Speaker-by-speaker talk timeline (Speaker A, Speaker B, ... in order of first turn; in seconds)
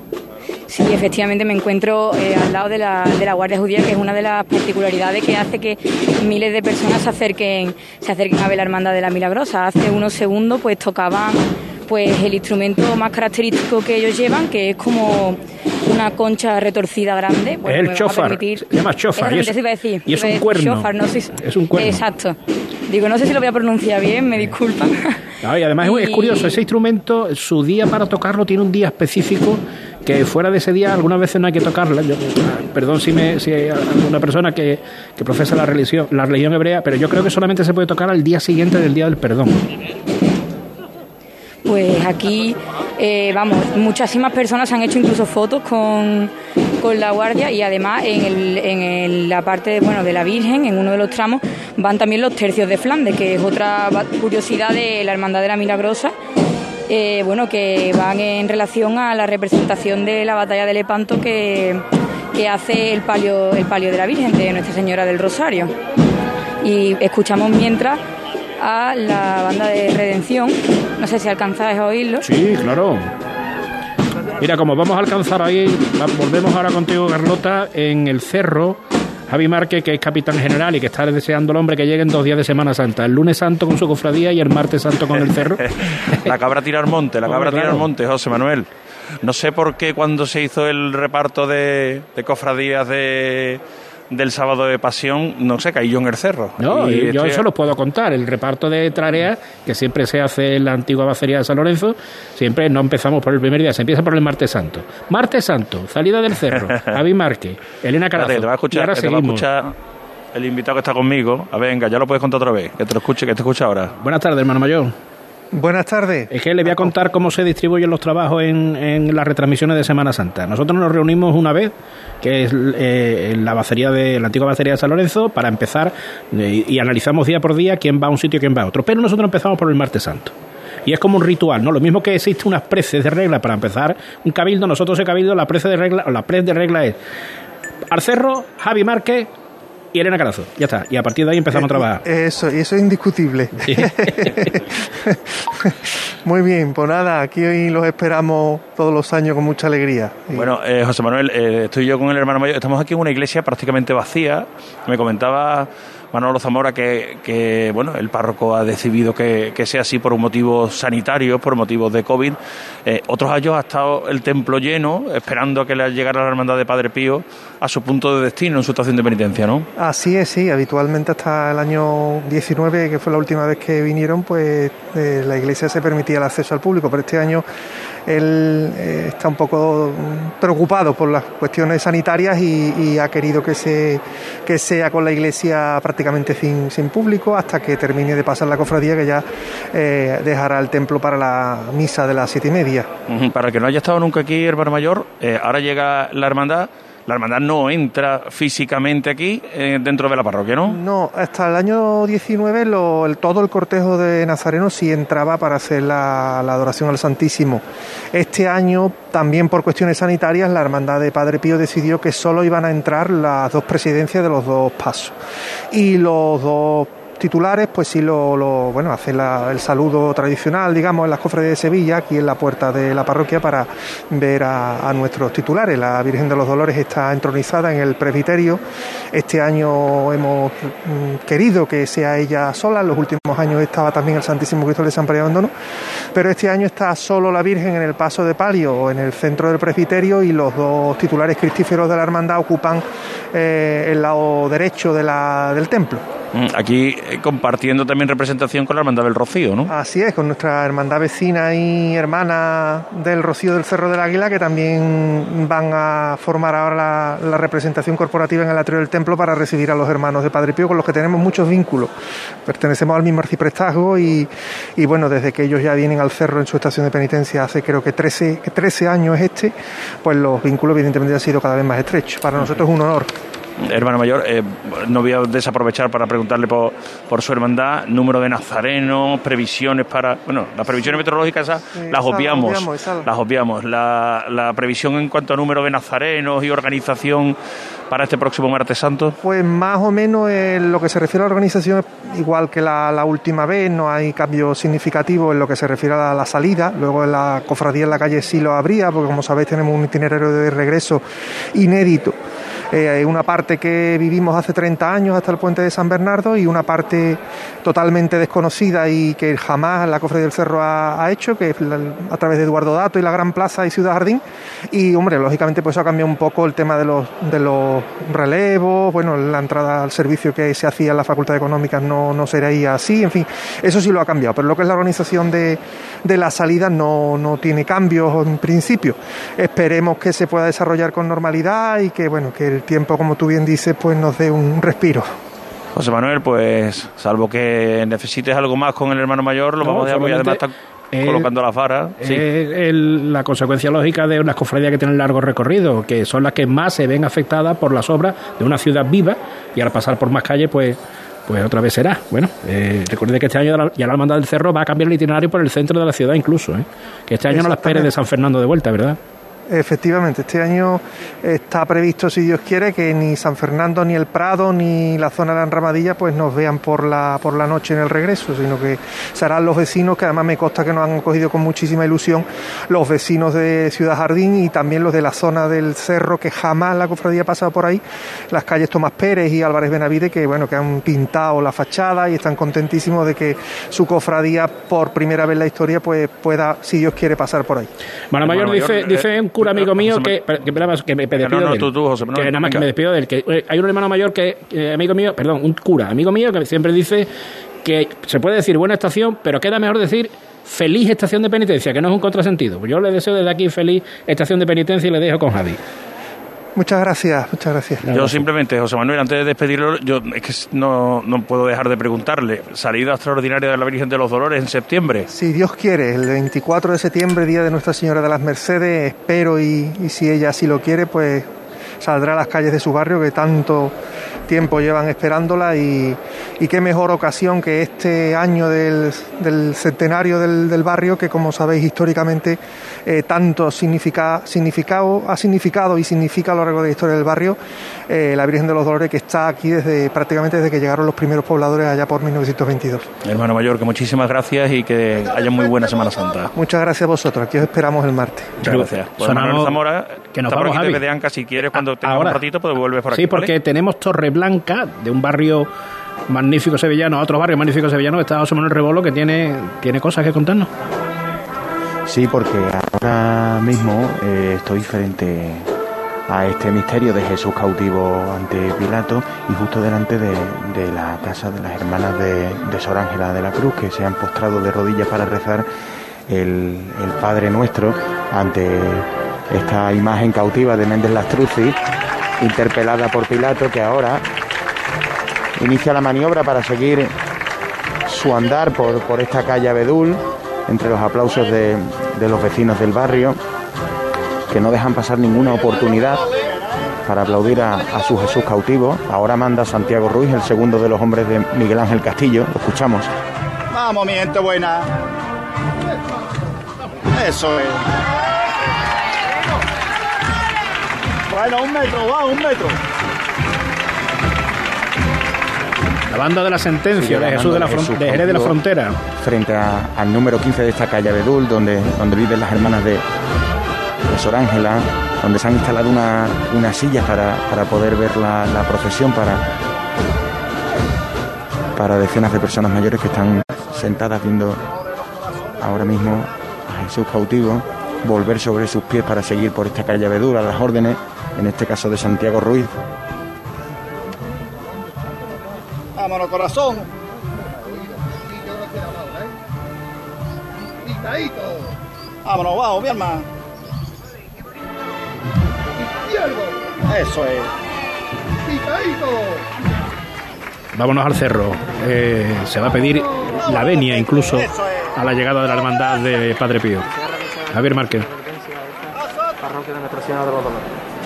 Speaker A: 0.7-18.6, 19.1-25.2, 25.8-26.6, 41.6-56.1, 56.9-65.7, 66.6-68.0, 68.6-72.2
Speaker B: 17.7-22.0, 25.4-39.6, 72.2-73.1, 74.4-86.3, 87.3-87.9, 96.6-109.5, 114.0-114.9, 116.3-130.3, 130.8-137.0, 137.9-139.3, 139.9-142.0, 143.6-144.3, 339.6-340.4, 340.9-341.3, 342.0-359.0, 388.1-397.1, 397.6-405.6, 407.8-408.2, 448.4-449.6, 450.1-450.8, 451.5-452.2, 452.9-455.5, 456.1-460.5, 515.9-518.8, 560.6-566.7, 567.3-567.9
Speaker C: 85.1-88.7, 89.2-97.5, 108.2-109.7, 110.3-114.0, 150.3-169.7, 193.1-200.8, 246.3-249.7, 273.6-287.4, 287.9-289.2, 335.8-342.2, 388.2-390.4, 391.1-392.7, 407.9-415.1, 443.0-446.3, 448.4-453.3
Speaker D: 115.5-116.3, 141.6-150.5, 169.8-177.4, 178.1-192.9, 200.7-215.2, 215.7-228.6, 229.1-235.5, 236.1-246.0, 249.7-261.9, 262.5-273.1, 281.8-283.1, 289.2-302.2, 302.7-335.1, 357.3-357.9, 359.5-387.7, 406.6-407.9, 415.1-421.3, 421.8-423.8, 424.3-437.4, 437.9-442.9, 446.4-448.4
Speaker E: 461.9-465.5, 466.1-475.5, 476.1-481.6, 482.2-484.1, 485.4-486.9, 487.9-493.2, 494.3-496.0, 496.9-502.9, 516.8-518.4, 518.9-522.8, 523.9-529.3, 531.5-534.4, 535.4-542.6
Speaker F: 503.5-504.7, 506.9-507.7, 511.1-512.6, 545.8-546.7, 552.0-553.0, 556.7-557.3
Speaker G: 566.9-570.6